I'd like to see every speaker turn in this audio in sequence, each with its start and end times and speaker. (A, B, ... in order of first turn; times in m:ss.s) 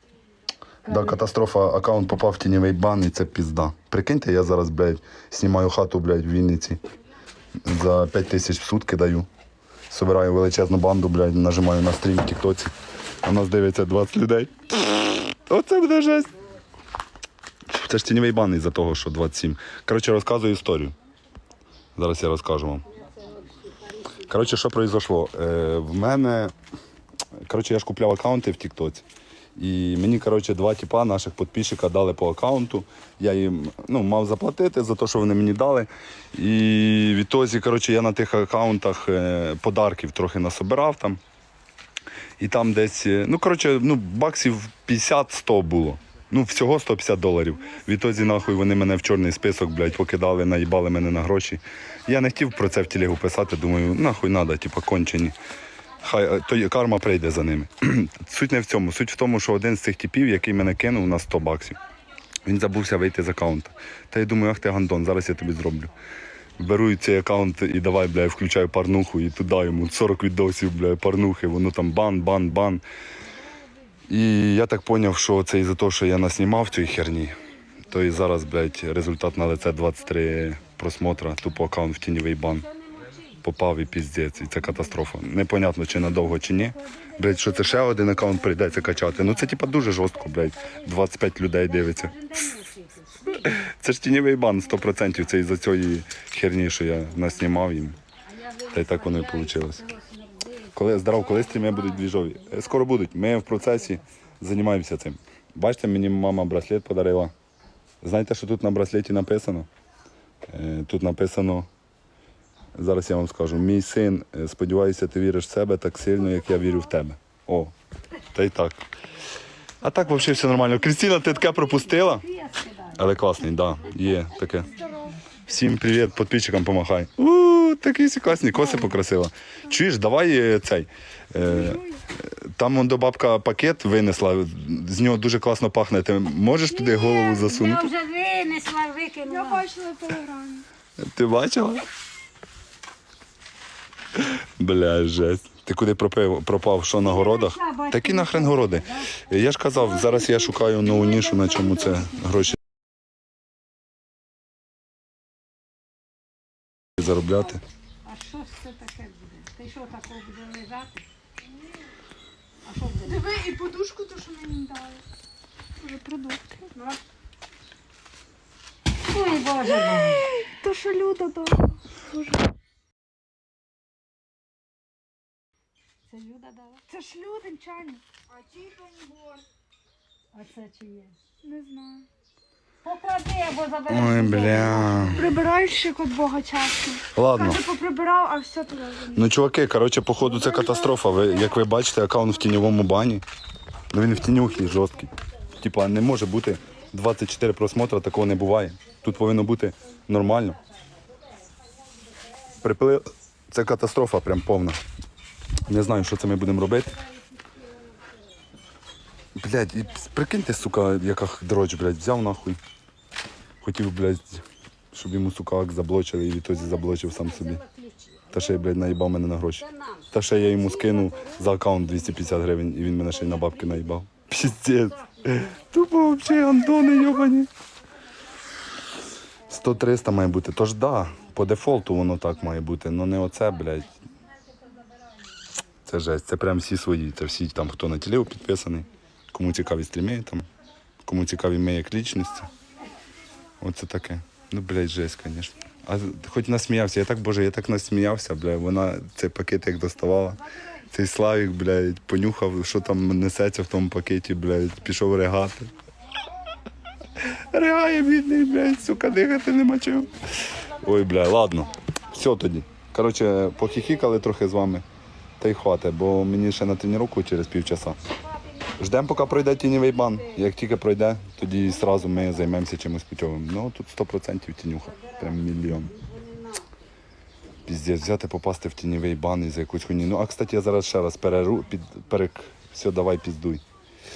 0:00.8-0:01.2 A
0:00.9-0:06.8 B
0:07.6-0:09.3 B
0:09.9-0:12.7 B
0:13.2-0:16.3 B
0:17.7-0:20.9 B
0:22.0-0:22.8 B
0:22.9-0:24.5 A
0:24.3-0:26.5 B
0:27.4-0:29.0 B
0:29.6-0:41.2 B
0:42.4-0:55.4 B
0:56.0-1:01.8 B
1:02.4-1:05.9 B
1:06.6-1:12.8 B
1:14.1-1:22.6 B
1:22.6-1:23.4 A
1:23.4-1:32.1 B
1:26.1-1:33.6 A
1:33.5-1:38.0 B
1:36.9-1:44.2 A
1:38.7-1:39.8 B
1:40.7-1:47.3 B
1:48.0-1:49.7 B
1:50.5-1:51.7 B
1:52.7-1:57.7 B
1:58.3-1:58.8 B
1:59.8-2:02.2 B
2:00.7-2:03.2 A
2:03.0-2:04.7 B
2:04.7-2:05.2 C
2:05.4-2:17.9 B
2:11.4-2:12.0 C
2:16.7-2:19.6 A
2:19.3-2:20.6 C
2:21.0-2:21.8 B
2:24.2-2:32.6 B
2:27.0-2:29.3 A
2:29.8-2:32.1 C
2:37.0-2:37.6 B
2:37.0-2:41.0 A
2:42.6-2:43.4 A
2:43.1-2:45.0 C
2:45.8-2:47.0 C
2:49.1-2:50.3 A
2:50.2-2:52.4 C
2:56.1-2:56.9 A
2:56.9-2:58.0 C
2:58.5-2:59.4 C
3:00.3-3:01.1 A
3:01.4-3:02.0 C
3:02.8-3:05.4 A
3:03.9-3:05.3 B
3:05.2-3:09.3 C
3:07.1-3:07.6 B
3:09.1-3:13.2 B
3:10.2-3:11.4 C
3:13.9-3:20.6 B
3:22.6-3:24.8 B
3:25.7-3:27.0 B
3:27.0-3:27.5 A
3:29.4-3:32.6 B
3:33.6-3:37.6 B
3:36.5-3:39.0 A
3:38.3-3:47.5 B
3:39.6-3:45.7 A
3:49.5-3:53.9 B
3:55.8-4:00.4 B
4:01.0-4:02.5 B
4:03.6-4:15.7 B
4:17.2-4:24.8 B
4:25.4-4:28.0 B
4:28.8-4:35.9 B
4:31.8-4:32.1 A
4:34.8-4:36.7 A
4:37.6-4:43.6 B